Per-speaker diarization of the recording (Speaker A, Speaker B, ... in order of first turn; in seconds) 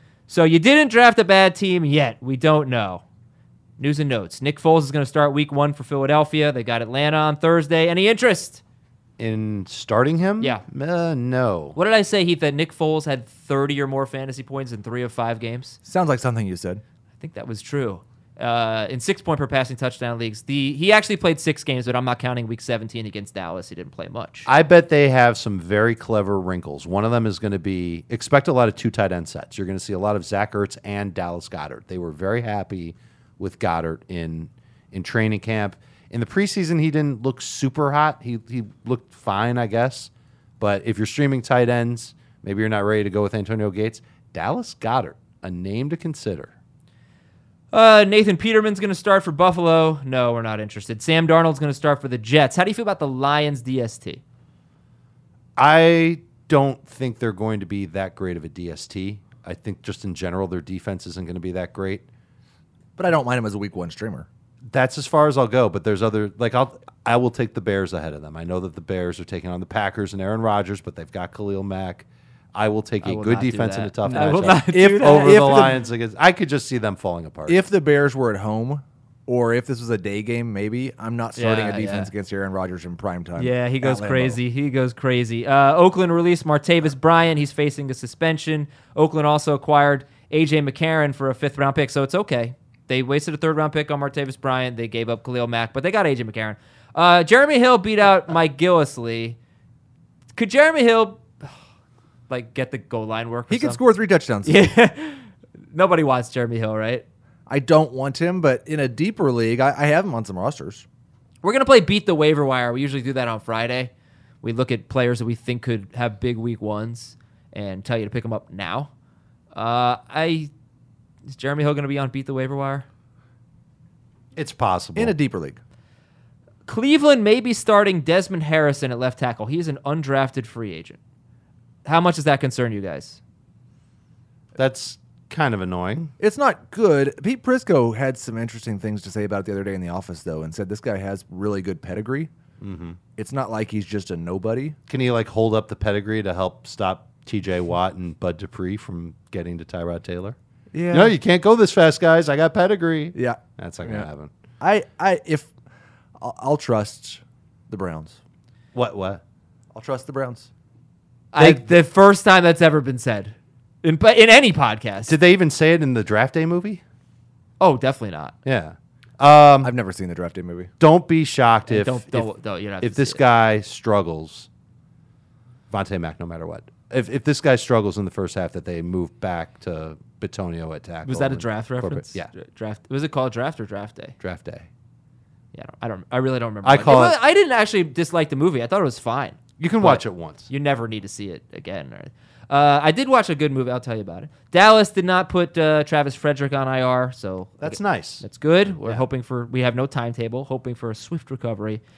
Speaker A: 0.3-3.0, 3.8-8.6, 11.7-15.8, 17.2-24.5, 47.7-54.2, 73.0-75.6, 81.4-82.1, 83.4-99.4, 100.4-101.5, 102.3-103.8, 104.4-107.0, 111.4-113.9, 114.4-118.9, 119.5-120.5, 121.3-122.9, 126.7-131.0, 131.8-133.2, 161.3-165.2, 167.6-168.3, 171.7-173.2, 181.1-184.1, 185.5-201.8
Speaker B: 9.2-11.8, 24.5-46.5, 55.6-62.0, 64.7-77.6, 124.4-125.1, 134.6-136.1, 142.6-143.0, 144.9-150.4, 150.9-154.3, 158.7-159.2, 161.4-161.8, 165.1-166.8, 168.4-169.7, 170.8-172.3, 172.8-174.5, 175.7-182.3, 184.2-184.7, 186.6-187.2, 189.6-190.5, 197.6-198.2, 198.8-199.0
Speaker C: 15.8-16.8, 63.0-64.3, 74.1-75.8, 77.5-84.4, 103.5-104.6, 107.5-110.9, 124.9-125.6, 136.2-142.3, 143.2-144.8, 150.7-151.2, 153.1-154.1, 154.6-155.5, 156.2-158.2, 159.7-160.5, 169.6-170.7